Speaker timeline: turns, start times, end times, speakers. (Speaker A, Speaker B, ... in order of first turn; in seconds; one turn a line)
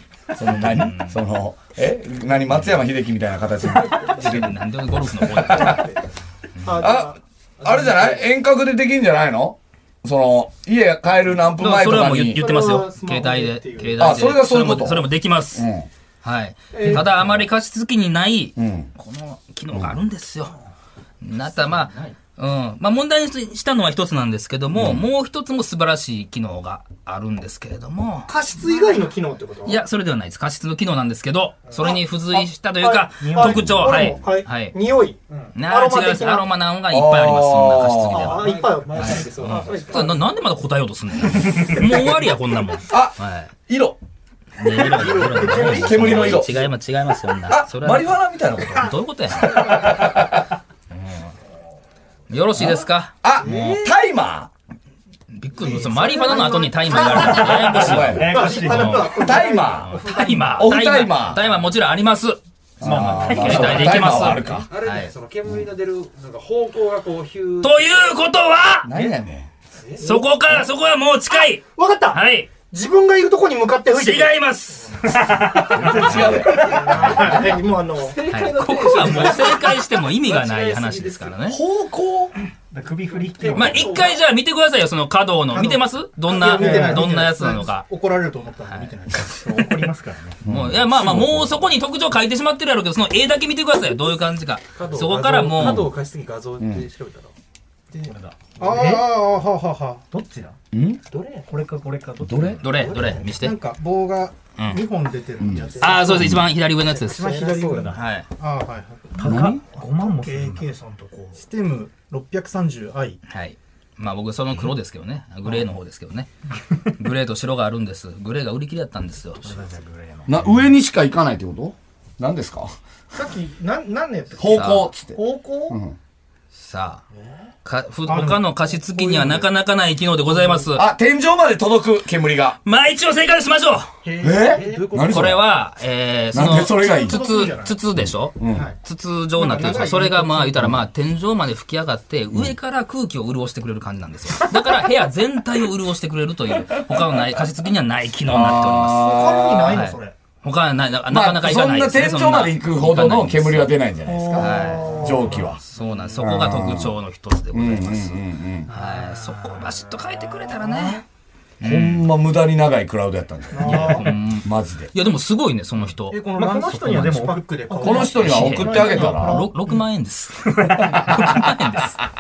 Speaker A: 0.3-4.6
Speaker B: 0.4-1.2
Speaker B: 3.8-5.9
Speaker C: 5.3-6.0
Speaker C: 6.6-7.2
Speaker A: 6.8-7.1
Speaker D: 7.6-8.3
Speaker A: 7.6-12.5
Speaker B: 11.6-15.7
Speaker C: 12.3-14.2
Speaker A: 14.0-15.9
Speaker B: 16.2-20.6
Speaker C: 16.7-17.4
Speaker A: 18.6-18.9
Speaker B: 21.2-28.3
Speaker A: 24.7-25.1
Speaker C: 28.3-29.8
Speaker B: 29.6-34.8
Speaker C: 31.8-36.5
Speaker E: 33.2-33.6
Speaker A: 33.4-34.2
Speaker B: 35.5-43.5
Speaker A: 36.9-38.4
Speaker C: 38.1-40.1
Speaker D: 38.4-40.2
Speaker A: 41.5-42.0
Speaker A: 42.9-44.0
Speaker B: 44.6-50.2
Speaker C: 44.6-46.6
Speaker D: 44.9-46.7
Speaker A: 45.4-46.5
Speaker A: 47.5-49.0
Speaker A: 49.5-50.4
Speaker B: 50.9-51.3
Speaker B: 52.3-53.2
Speaker A: 52.6-54.5
Speaker D: 53.3-53.9
Speaker B: 55.3-65.1
Speaker D: 55.6-56.5
Speaker C: 55.6-60.5
Speaker E: 57.0-59.3
Speaker A: 57.6-58.5
Speaker A: 59.1-60.0
Speaker A: 60.5-61.4
Speaker A: 62.8-64.7
Speaker E: 62.8-64.6
Speaker D: 64.7-68.3
Speaker B: 67.6-68.9
Speaker A: 68.8-69.5
Speaker D: 69.8-70.3
Speaker B: 70.0-72.5
Speaker C: 71.3-74.4
Speaker B: 73.9-75.1
Speaker E: 75.1-76.1
Speaker B: 75.6-76.6
Speaker A: 75.7-76.8
Speaker C: 75.8-78.2
Speaker D: 76.2-81.4
Speaker E: 76.8-77.5
Speaker B: 78.3-81.6
Speaker A: 81.5-82.3
Speaker E: 82.7-84.0
Speaker D: 83.0-84.2
Speaker B: 83.5-87.9
Speaker C: 85.5-89.9
Speaker E: 86.5-87.1
Speaker B: 88.7-88.9
Speaker E: 89.4-90.4
Speaker A: 90.4-91.7
Speaker B: 90.5-95.9
Speaker D: 94.8-97.3
Speaker A: 96.6-96.9
Speaker C: 97.9-100.0
Speaker D: 98.1-99.2
Speaker E: 98.1-99.1
Speaker E: 100.1-100.6
Speaker A: 100.7-101.0
Speaker D: 101.1-101.5
Speaker E: 101.5-102.7
Speaker A: 102.2-102.6
Speaker D: 102.6-103.3
Speaker B: 102.6-103.6
Speaker C: 103.2-113.2
Speaker B: 104.6-104.8
Speaker A: 105.4-106.5
Speaker B: 105.8-108.3
Speaker E: 107.1-108.0
Speaker E: 109.2-110.7
Speaker A: 109.2-109.6
Speaker B: 113.3-116.3
Speaker B: 116.8-119.5
Speaker E: 119.4-120.4
Speaker A: 120.3-122.7
Speaker C: 123.1-125.8
Speaker A: 124.4-125.2
Speaker B: 124.5-124.9
Speaker A: 125.7-126.0
Speaker B: 126.5-127.0
Speaker D: 127.1-127.5
Speaker B: 127.7-130.9
Speaker C: 128.1-129.5
Speaker A: 130.7-132.6
Speaker B: 132.7-133.9
Speaker D: 134.0-135.4
Speaker A: 134.2-135.4
Speaker B: 135.0-149.2
Speaker A: 136.3-137.2
Speaker C: 136.4-137.8
Speaker A: 138.0-138.7
Speaker C: 138.5-138.8
Speaker C: 139.4-140.8
Speaker A: 140.6-140.8
Speaker A: 146.7-147.4
Speaker A: 148.2-149.9
Speaker C: 148.9-150.1
Speaker B: 149.7-153.7
Speaker A: 151.1-155.6
Speaker C: 154.1-155.5
Speaker B: 154.4-161.0
Speaker A: 156.2-156.9
Speaker A: 157.5-158.7
Speaker B: 161.6-162.1
Speaker A: 161.6-164.9
Speaker C: 163.5-164.2
Speaker B: 163.6-166.3
Speaker C: 166.1-169.8
Speaker E: 166.1-169.3
Speaker B: 166.8-167.3
Speaker A: 167.8-169.4
Speaker B: 168.1-172.0
Speaker E: 170.5-171.5
Speaker A: 170.8-171.2